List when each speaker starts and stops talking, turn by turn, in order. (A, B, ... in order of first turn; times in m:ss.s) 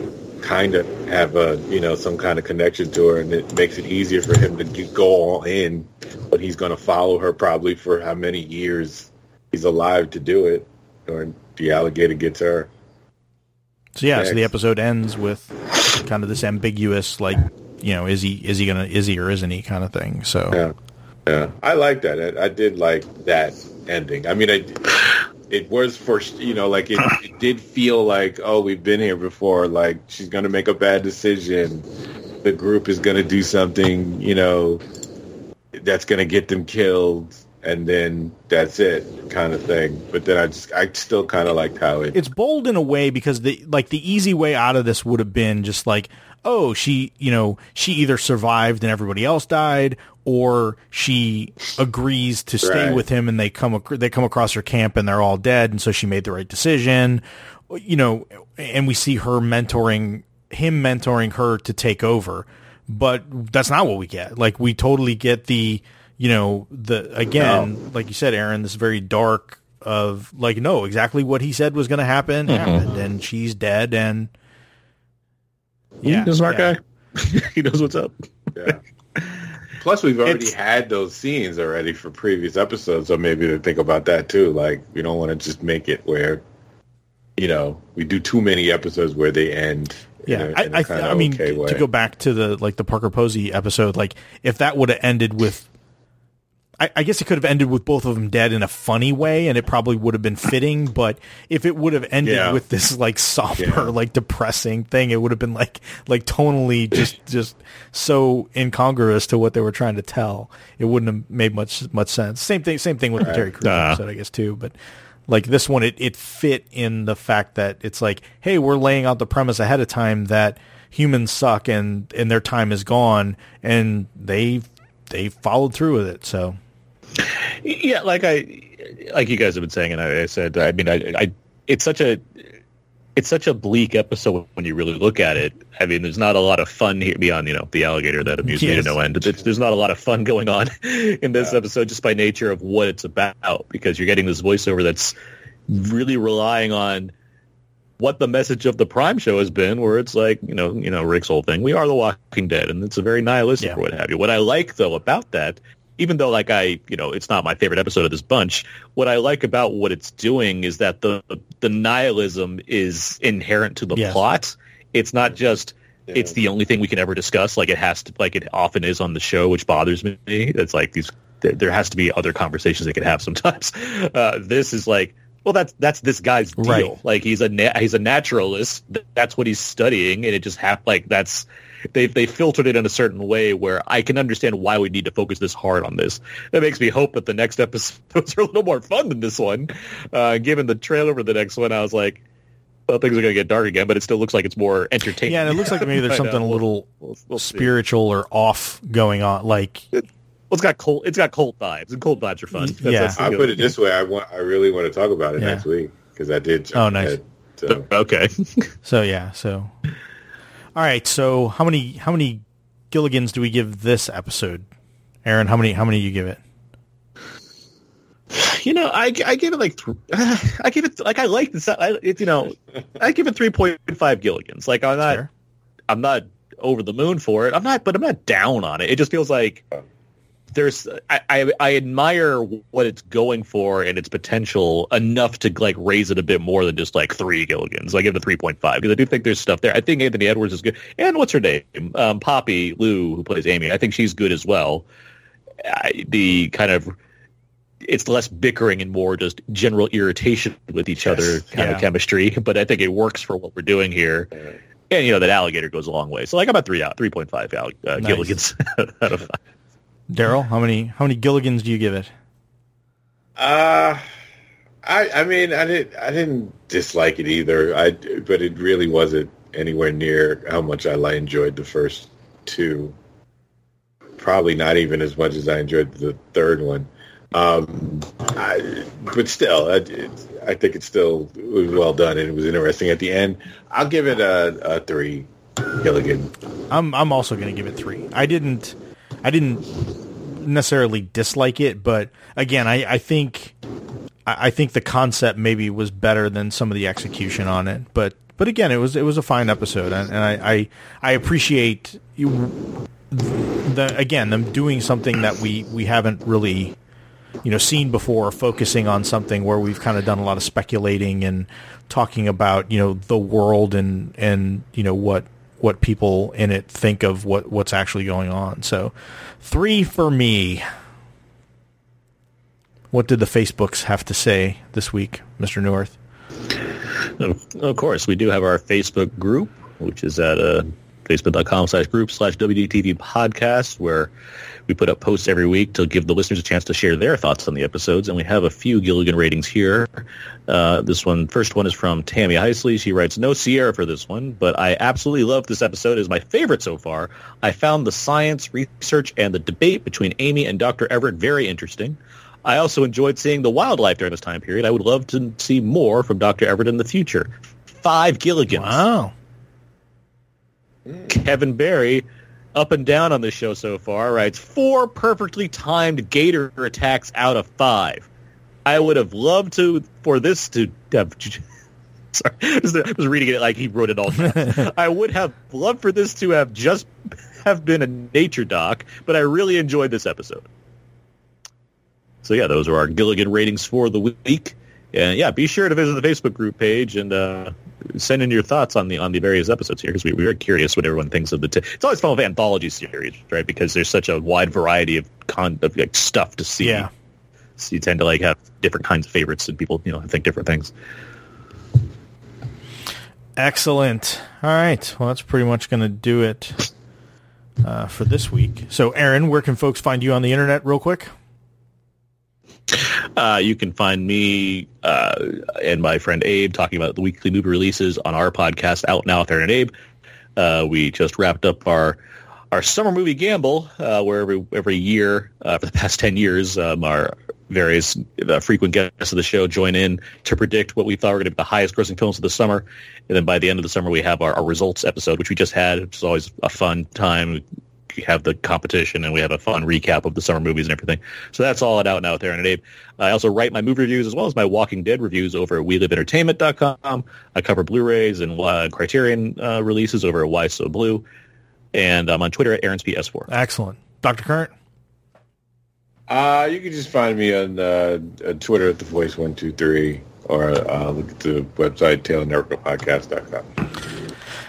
0:00.4-0:12.7 A
0:14.0-0:20.6 B
0:14.1-0:14.5 A
0:21.3-0:31.9 A
0:32.4-0:34.8 A
0:35.7-0:42.2 A
0:42.1-1:14.3 B
0:52.6-0:53.0 A
1:07.4-1:07.7 A
1:12.5-1:12.8 C
1:16.0-1:18.2 C
1:16.0-1:16.8 B
1:19.2-1:19.5 C
1:19.8-1:26.4 A
1:27.4-1:31.9 A
1:30.3-1:35.7 B
1:36.8-1:54.8 B
1:42.2-1:42.6 A
1:43.6-1:43.9 A
1:53.2-1:53.5 A
1:53.6-1:54.0 C
1:55.3-2:06.6 B
2:07.2-2:12.2 C
2:13.2-2:25.1 C
2:18.5-2:19.0 B
2:25.7-2:27.1 C
2:28.0-3:12.2 C
2:43.9-2:44.2 B
2:56.6-2:57.0 B
3:12.9-3:17.7 C
3:15.3-3:19.9 B
3:20.0-3:23.7 C
3:22.6-3:23.2 B
3:23.2-3:27.9 A
3:25.4-3:25.6 B
3:26.7-3:27.2 B
3:27.7-3:28.7 C
3:28.8-3:29.7 B
3:30.8-3:34.7 B
3:35.2-3:36.4 B
3:38.3-3:45.2 C
3:45.0-3:45.3 B
3:45.9-3:49.6 C
3:50.5-4:04.8 C
4:05.6-4:06.9 C
4:07.8-4:14.3 C
4:11.0-4:11.4 A
4:11.5-4:11.9 B
4:14.9-4:19.4 C
4:18.0-4:18.4 B
4:20.1-4:22.1 B
4:23.4-4:24.0 A
4:24.8-4:33.0 A
4:34.2-4:46.3 A
4:46.7-4:53.6 B
4:54.3-5:06.8 B
5:07.4-5:20.6 B
5:22.9-5:26.0 B
5:27.2-5:34.1 C
5:34.7-5:58.8 C
5:58.5-5:59.1 B
6:01.1-6:02.0 C
6:02.6-6:08.1 C
6:08.7-6:11.4 C
6:12.1-6:20.5 C
6:14.3-6:14.7 B
6:22.2-6:36.9 C
6:36.6-6:36.9 B
6:37.6-6:40.7 C
6:43.4-6:46.6 B
6:47.6-6:51.1 B
6:52.7-6:59.7 C
7:00.4-7:02.0 C
7:02.5-7:31.1 C
7:31.7-7:33.3 C
7:33.3-7:34.5 B
7:36.1-7:43.5 A